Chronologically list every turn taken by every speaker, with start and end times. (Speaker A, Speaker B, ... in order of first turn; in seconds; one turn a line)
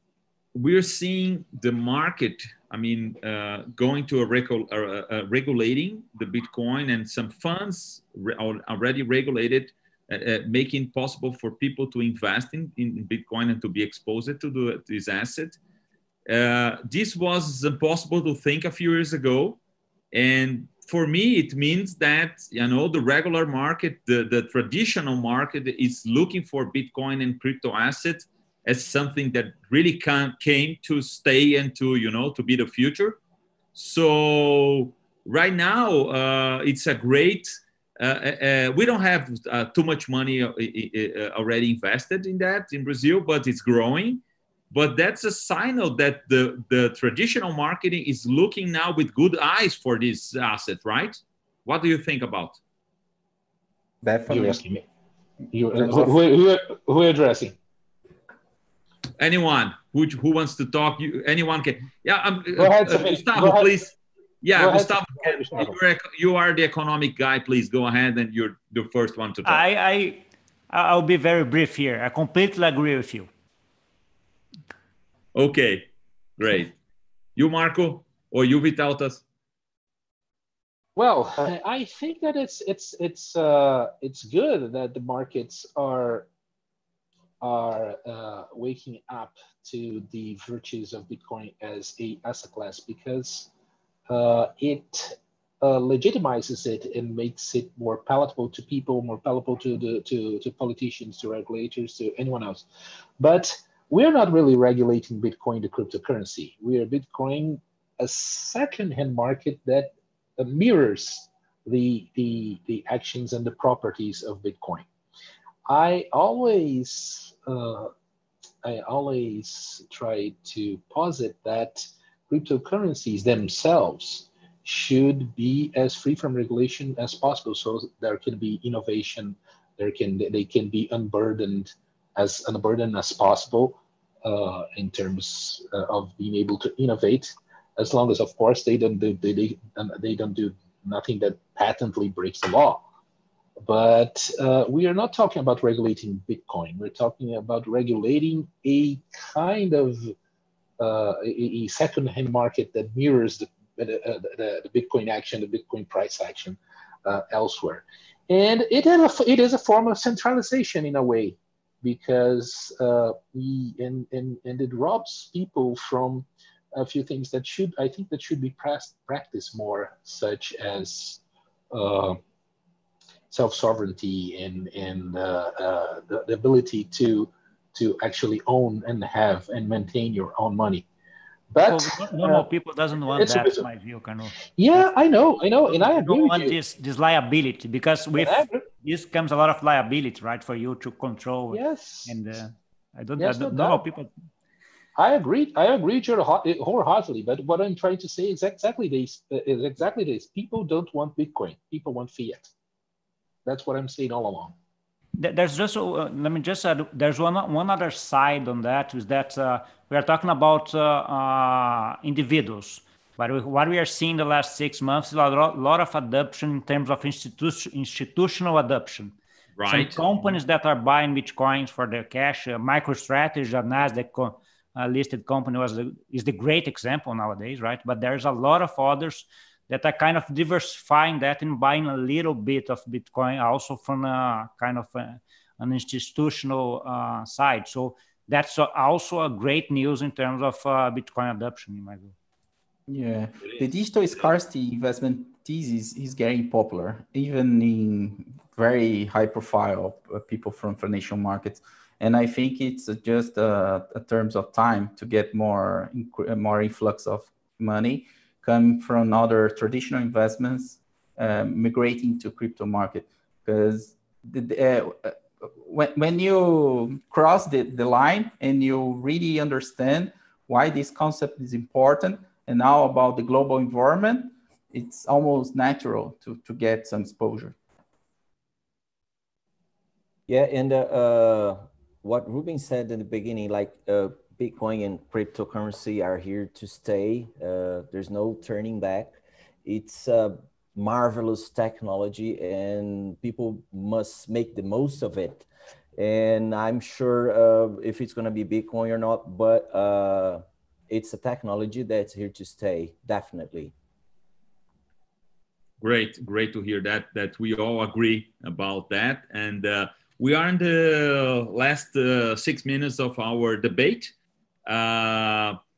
Speaker A: 0.5-15.6
Speaker A: 16.3-19.6
Speaker A: 20.1-33.2
Speaker A: 33.7-52.6
Speaker B: 54.0-54.6
Speaker C: 54.3-54.8
Speaker C: 55.5-57.6
Speaker B: 55.8-56.1
Speaker A: 59.2-69.6
Speaker C: 62.5-63.9
Speaker C: 64.5-65.8
Speaker D: 69.4-73.3
Speaker A: 75.3-76.7
Speaker A: 77.3-79.2
Speaker C: 81.0-86.3
Speaker C: 87.4-93.5
Speaker C: 94.1-102.7
Speaker C: 103.2-114.8
Speaker C: 115.7-117.9
Speaker C: 118.6-142.8
Speaker C: 143.6-150.1
Speaker C: 150.8-172.2
Speaker C: 173.3-180.8
Speaker C: 181.5-182.4
Speaker D: 181.6-184.9
Speaker C: 183.1-183.7
Speaker C: 184.6-186.6
Speaker D: 185.7-194.1
Speaker C: 188.2-188.7
Speaker C: 191.5-192.2
Speaker C: 193.2-193.8
Speaker C: 194.9-202.5
Speaker C: 203.4-204.5
Speaker D: 205.2-219.2
Speaker A: 219.6-220.0
Speaker D: 219.7-242.1
Speaker B: 242.9-277.6
Speaker E: 280.3-303.7
Speaker A: 305.8-314.1
Speaker A: 314.6-315.6